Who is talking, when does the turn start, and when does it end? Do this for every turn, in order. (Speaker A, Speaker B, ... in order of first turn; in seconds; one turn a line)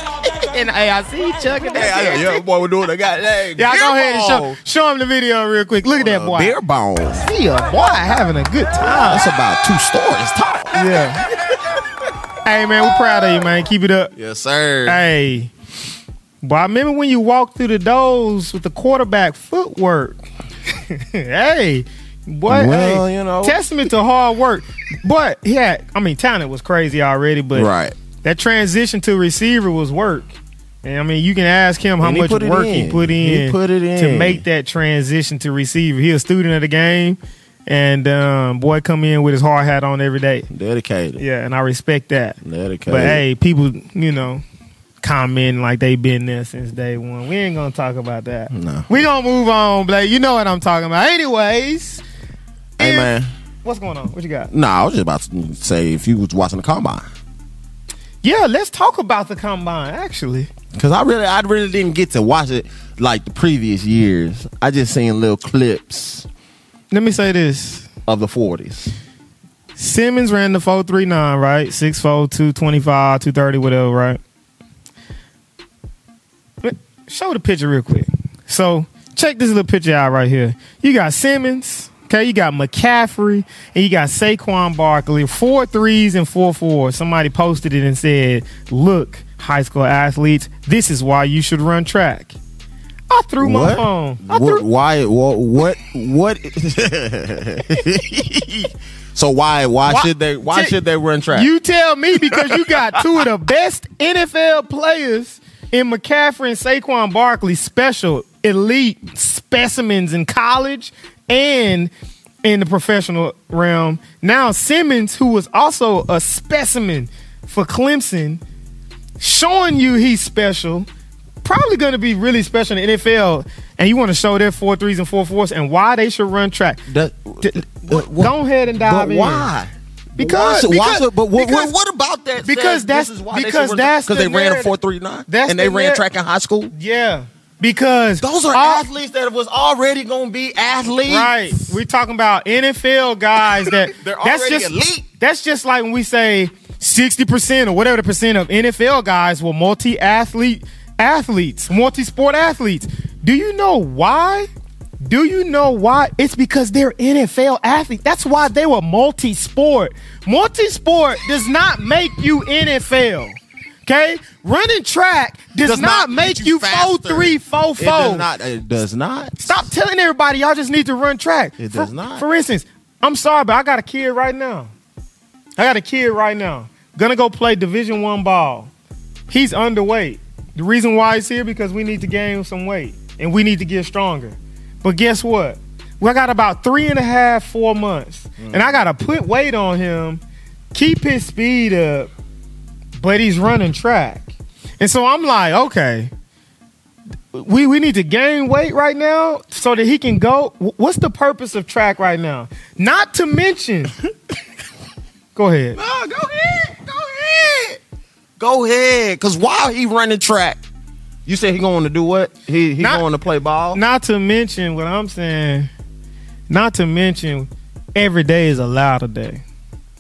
Speaker A: 0.2-2.4
Speaker B: 1.7-4.6
Speaker A: 3.6-6.6
Speaker B: 5.9-7.3
Speaker A: 7.2-9.3
Speaker B: 8.8-11.8
Speaker A: 10.7-11.3
Speaker A: 12.4-14.1
Speaker B: 13.1-13.4
Speaker B: 14.2-15.0
Speaker A: 14.9-15.5
Speaker A: 16.4-20.2
Speaker A: 20.9-27.7
Speaker B: 22.5-23.6
Speaker B: 27.5-27.9
Speaker A: 28.2-40.5
Speaker B: 32.0-34.4
Speaker B: 40.5-41.2
Speaker A: 41.2-44.4
Speaker B: 42.4-43.2
Speaker A: 45.0-52.0
Speaker B: 48.5-49.0
Speaker B: 52.8-53.3
Speaker A: 52.8-54.5
Speaker B: 54.5-57.1
Speaker A: 58.2-60.5
Speaker B: 60.8-66.3
Speaker A: 66.9-67.9
Speaker B: 68.1-68.9
Speaker A: 69.8-74.2
Speaker A: 76.6-92.3
Speaker A: 93.1-94.6
Speaker B: 93.4-101.5
Speaker A: 99.8-100.8
Speaker A: 101.3-111.9
Speaker B: 102.3-102.8
Speaker A: 112.4-118.4
Speaker A: 119.2-120.9
Speaker A: 121.4-126.8
Speaker B: 126.9-136.7
Speaker A: 127.4-129.5
Speaker A: 130.2-131.7
Speaker A: 132.4-134.7
Speaker A: 135.3-136.0
Speaker A: 136.7-138.9
Speaker B: 138.2-141.8
Speaker A: 141.1-154.5
Speaker B: 143.6-145.1
Speaker A: 155.0-168.3
Speaker B: 165.6-169.4
Speaker A: 169.4-174.7
Speaker B: 171.6-172.3
Speaker A: 175.6-178.7
Speaker A: 179.3-190.2
Speaker B: 188.4-188.7
Speaker A: 190.7-192.1
Speaker A: 193.0-196.1
Speaker A: 197.3-203.9
Speaker A: 205.3-205.8
Speaker B: 205.7-207.8
Speaker B: 208.4-210.6
Speaker B: 211.3-213.8
Speaker A: 212.8-213.1
Speaker A: 213.7-215.7
Speaker A: 216.5-219.4